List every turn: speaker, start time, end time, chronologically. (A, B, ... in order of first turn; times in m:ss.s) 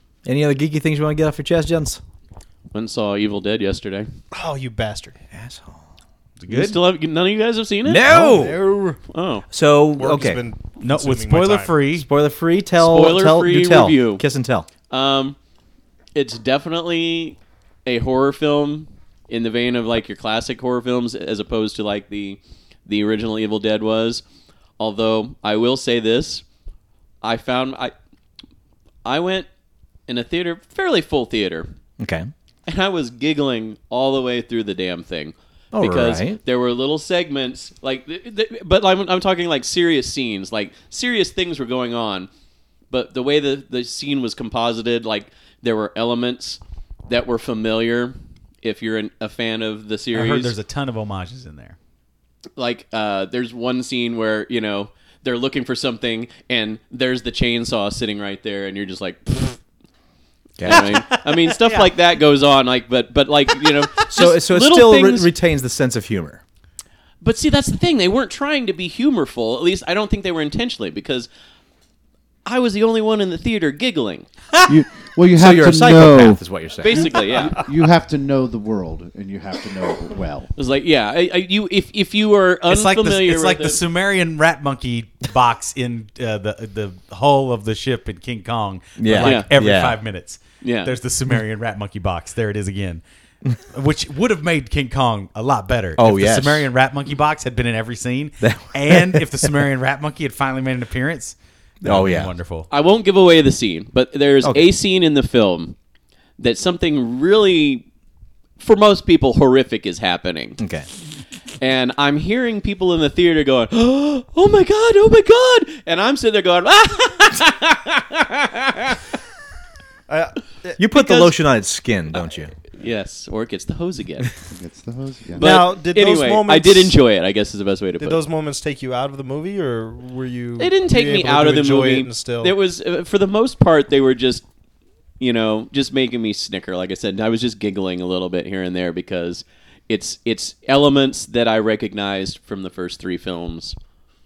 0:00.2-0:02.0 A
0:02.7-0:04.1 B
0:04.3-0:05.2 C
0:05.3-0:05.8 A
0:06.4-0:06.8 D
0:06.5-0:08.0 B
0:07.8-0:08.6 A
0:08.1-0:09.0 C
0:09.1-0:09.4 B
0:09.5-0:10.4 A
0:10.0-0:11.7 C
0:10.8-0:12.1 D
0:11.9-0:14.7 A
0:12.8-0:14.2 B
0:14.9-0:15.4 B
0:16.1-0:24.2 B
0:24.8-0:26.4 B
0:27.2-0:27.9 B
0:29.0-0:29.5 B
0:30.1-0:31.7 B
0:32.0-0:32.3 A
0:32.6-0:42.3 B
0:35.7-0:36.4 A
0:42.9-0:50.6 B
0:50.1-0:51.8 D
0:52.6-0:59.6 B
1:00.6-1:01.0 A
1:00.6-1:05.3 B
1:00.7-1:01.9 D
1:04.0-1:06.4 A
1:07.2-1:11.3 B
1:12.4-1:14.3 B
1:14.6-1:20.5 E
1:15.3-1:17.1 A
1:16.8-1:17.6 B
1:20.6-1:23.8 B
1:22.7-1:33.0 D
1:29.0-1:30.0 A
1:29.2-1:29.5 B
1:30.6-1:30.9 B
1:33.7-1:42.7 D
1:36.0-1:36.7 A
1:38.4-1:39.5 A
1:41.8-1:42.3 A
1:42.7-1:45.7 B
1:44.4-1:44.7 A
1:46.4-1:47.8 B
1:48.6-1:50.6 B
1:50.6-1:50.9 A
1:51.6-1:59.0 B
2:00.1-2:01.3 C
2:00.8-2:02.5 A
2:02.7-2:04.3 B
2:04.5-2:05.5 E
2:05.4-2:08.2 B
2:05.4-2:07.0 C
2:08.0-2:12.5 C
2:10.6-2:14.4 B
2:15.2-2:23.8 B